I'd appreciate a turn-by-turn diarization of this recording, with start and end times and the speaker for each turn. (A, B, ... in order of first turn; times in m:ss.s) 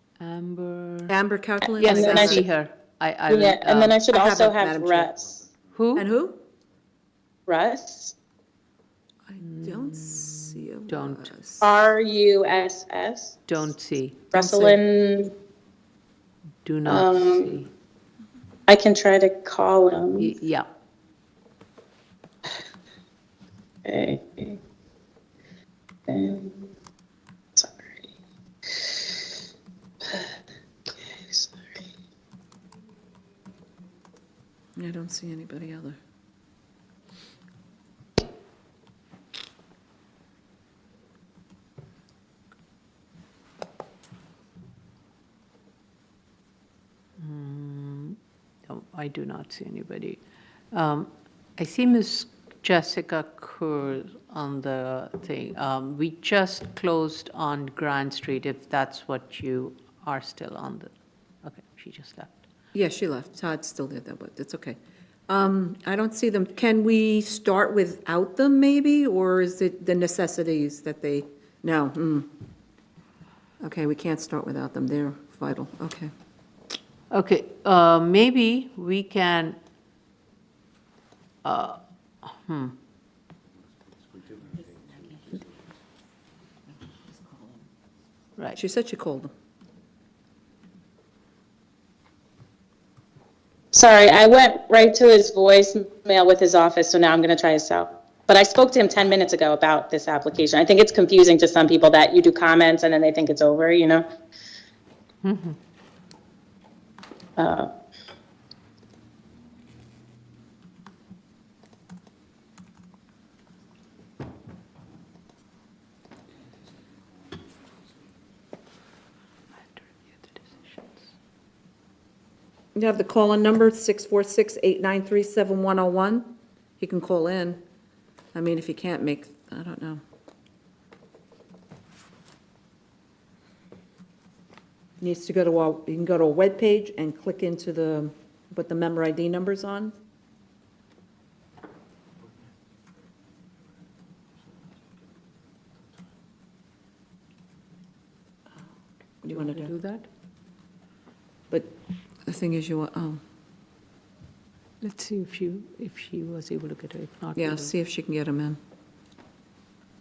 0:00.2-0:01.1 A
0:01.1-0:02.4 B
0:01.7-0:02.4 C
0:01.8-0:04.0 A
0:03.3-0:05.3 C
0:04.1-0:05.1 B
0:05.7-0:06.1 A
0:06.0-0:06.4 B
0:07.5-0:08.2 C
0:09.3-0:11.7 B
0:09.4-0:11.3 A
0:11.6-0:13.4 C
0:13.5-0:14.3 A
0:14.3-0:15.3 C
0:14.3-0:14.8 B
0:16.6-0:17.7 A
0:16.9-0:17.6 C
0:18.7-0:20.3 C
0:20.2-0:20.7 A
0:23.8-0:24.6 C
0:26.1-0:26.7 C
0:27.6-0:28.0 C
0:30.1-0:30.3 C
0:30.9-0:31.6 C
0:34.8-0:36.0 B
0:47.2-0:50.2 A
0:50.7-1:00.9 A
1:01.4-1:02.4 A
1:02.7-1:04.8 B
1:05.3-1:12.3 B
1:13.6-1:16.1 B
1:17.1-1:19.6 A
1:21.4-1:22.8 A
1:28.6-1:29.3 B
1:33.7-1:44.0 C
1:45.2-1:45.6 A
1:47.4-1:47.7 C
1:59.8-2:01.0 A
2:02.7-2:07.6 B
2:08.3-2:10.0 B
2:15.0-2:20.0 B
2:29.2-2:29.7 B
2:29.3-2:30.1 A
2:32.3-2:33.2 B
2:34.8-2:37.7 A
2:37.4-2:38.6 B